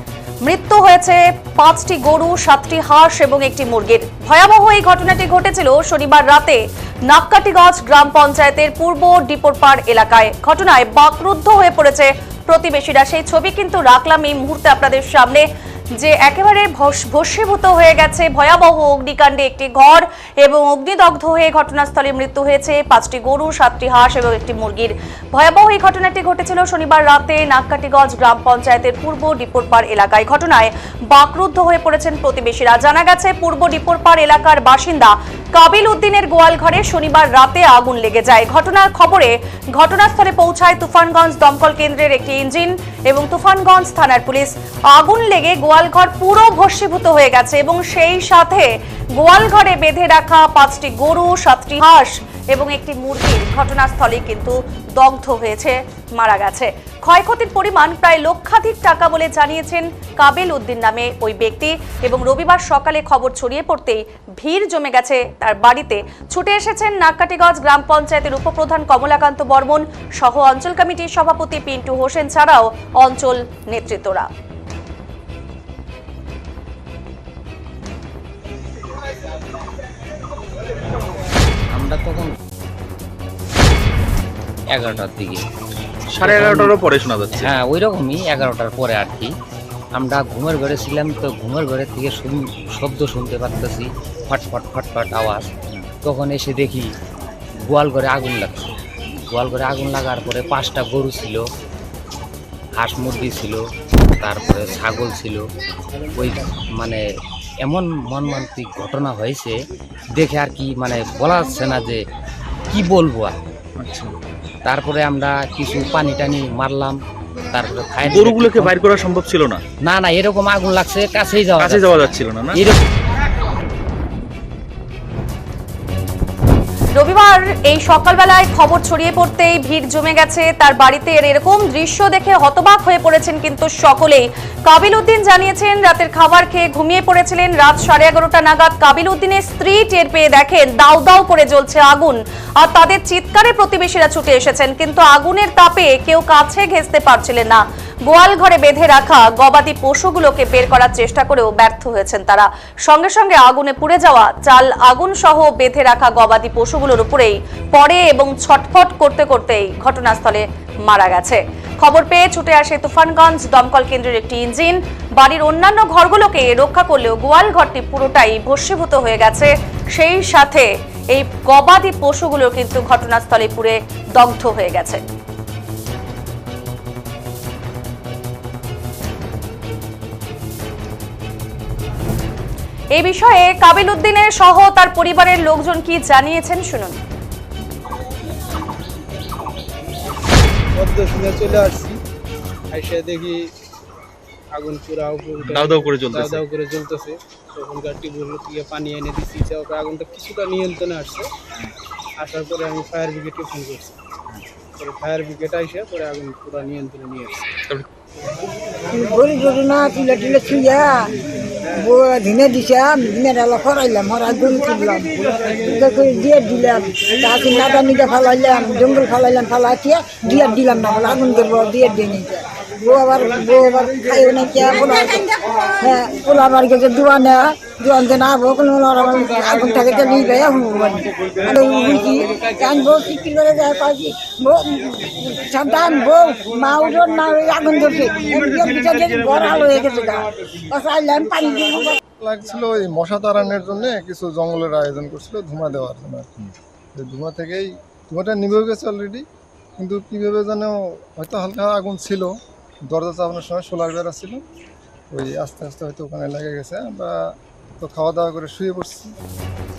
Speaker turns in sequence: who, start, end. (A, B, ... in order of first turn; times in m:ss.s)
0:00.4-0:15.4 A
0:16.0-1:14.3 A
1:21.7-1:22.3 B
1:24.7-1:25.4 B
1:26.1-1:26.7 B
1:26.2-1:27.5 C
1:27.4-1:29.3 B
1:29.9-1:35.5 B
1:36.0-1:36.9 B
1:37.6-1:38.7 B
1:39.3-1:41.4 B
1:42.8-1:43.6 B
1:44.2-1:45.4 B
1:46.1-1:47.0 B
1:47.6-1:49.6 B
1:50.2-1:52.0 B
1:52.7-1:53.4 B
1:53.8-1:54.1 C
1:54.6-1:57.0 B
1:57.5-1:58.8 B
1:58.0-1:59.6 C
1:59.8-2:02.8 B
2:01.6-2:02.6 C
2:07.0-2:55.0 A
3:02.9-3:07.0 A
3:10.7-3:12.0 D
3:12.7-3:13.5 D
3:14.5-3:21.3 D
3:15.4-3:16.4 C
3:22.2-3:24.0 D
3:24.8-3:27.5 D
3:28.9-3:31.1 E
3:31.7-4:02.0 E
4:02.2-4:06.3 F
4:06.9-4:09.2 F
4:09.8-4:12.3 F
4:12.9-4:14.4 F
4:15.1-4:17.2 F
4:17.8-4:19.1 F